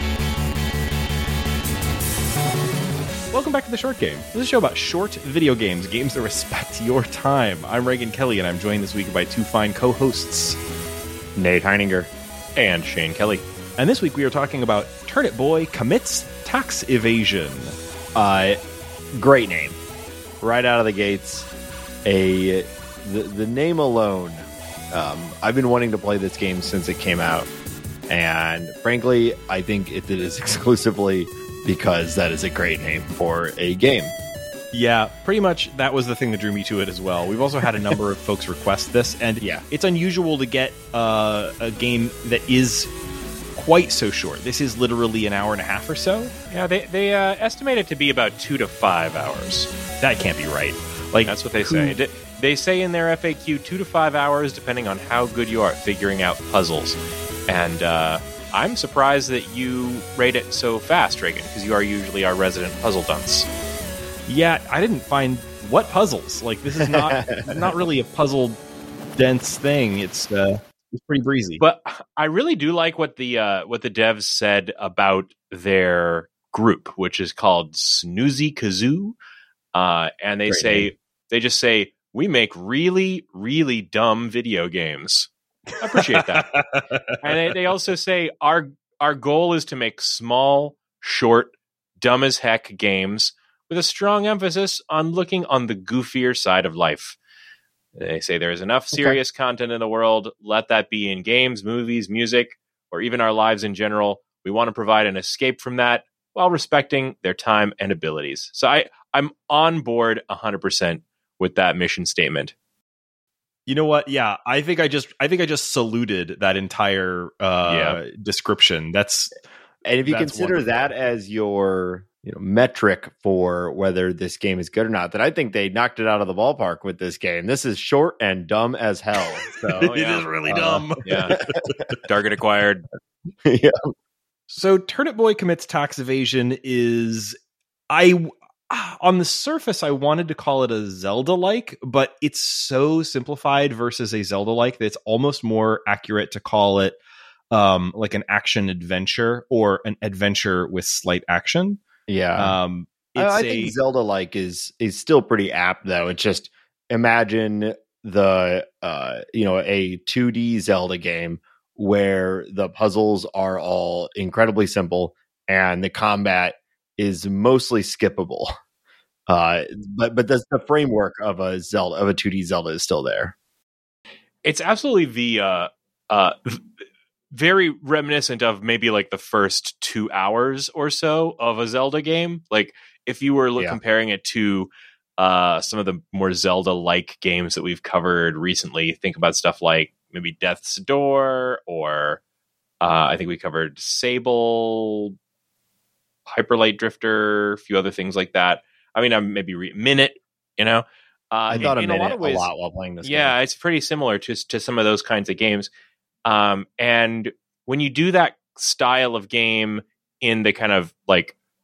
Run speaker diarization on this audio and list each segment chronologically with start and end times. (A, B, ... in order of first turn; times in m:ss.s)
0:03.3-0:10.6 A
0:11.4-0:12.1 B
0:12.6-0:13.4 C
0:13.8-0:17.8 A
0:18.2-0:18.6 B
0:19.1-0:19.8 B
0:20.4-0:21.5 B
0:22.0-0:27.5 B
0:28.1-0:34.1 B
0:34.7-0:42.9 A
0:39.4-0:39.6 B
0:43.6-0:46.3 A
0:46.5-0:49.7 C
0:50.0-0:52.0 A
0:51.3-1:03.5 C
1:04.3-1:08.6 A
1:06.8-1:07.7 B
1:09.2-1:11.6 A
1:11.6-1:19.2 C
1:19.7-1:26.6 C
1:20.5-1:20.9 B
1:26.0-1:27.2 A
1:27.2-1:37.2 C
1:38.0-1:52.5 C
1:38.9-1:39.2 B
1:53.7-1:59.3 A
1:57.7-1:58.0 C
1:59.8-2:09.9 B
2:00.0-2:00.7 A
2:09.5-2:11.8 A
2:09.7-2:10.3 C
2:10.4-2:10.9 B
2:11.0-2:11.4 C
2:12.0-2:12.8 C
2:13.4-2:13.8 B
2:14.5-2:17.4 A
2:17.9-2:27.0 A
2:27.5-2:31.8 A
2:32.1-2:32.6 B
2:32.4-2:33.8 A
2:33.2-2:48.6 B
2:49.3-2:53.3 B
2:54.4-2:56.6 C
2:57.3-3:12.2 C
3:12.8-3:15.2 C
3:16.3-3:22.5 C
3:21.5-3:23.4 B
3:23.0-3:25.7 C
3:26.2-3:31.3 C